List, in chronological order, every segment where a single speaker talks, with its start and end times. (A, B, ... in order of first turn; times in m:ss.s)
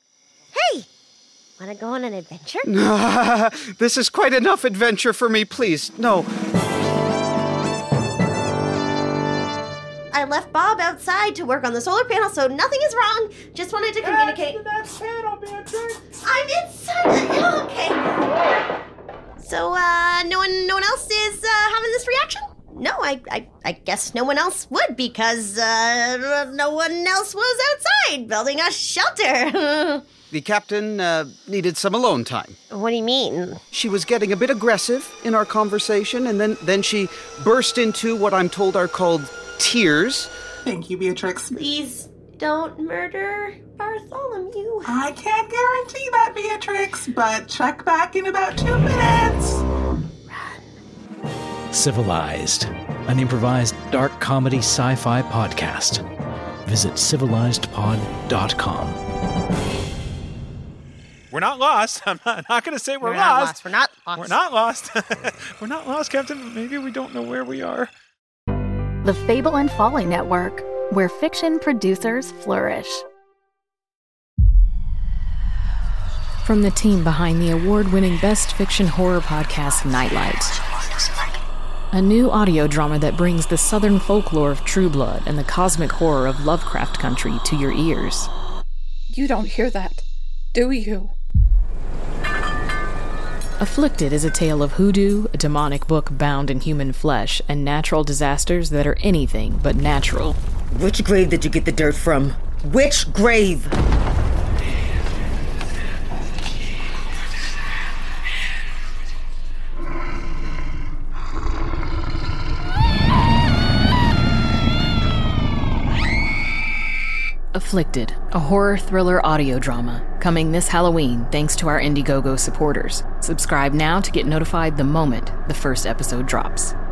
0:00.5-0:00.9 A
0:01.6-0:02.7 A
0:02.6-0:06.3 B
0:10.1-0:14.7 A
0:14.0-0:16.0 C
0:16.2-0:18.1 A
0:19.4-0:30.1 A
0:30.3-0:32.6 B
0:32.7-0:33.6 A
0:33.7-0:40.3 B
0:40.7-0:41.5 D
0:41.5-0:45.0 A
0:44.9-0:49.6 D
0:50.3-0:50.6 A
0:51.7-0:56.0 E
0:56.6-0:59.0 E
1:01.3-1:07.9 C
1:03.0-1:04.4 A
1:09.0-1:13.0 F
1:16.4-1:20.6 G
1:21.9-1:28.3 G
1:29.1-1:31.1 H
1:33.6-1:40.4 G
1:40.7-1:43.7 I
1:57.5-2:06.7 G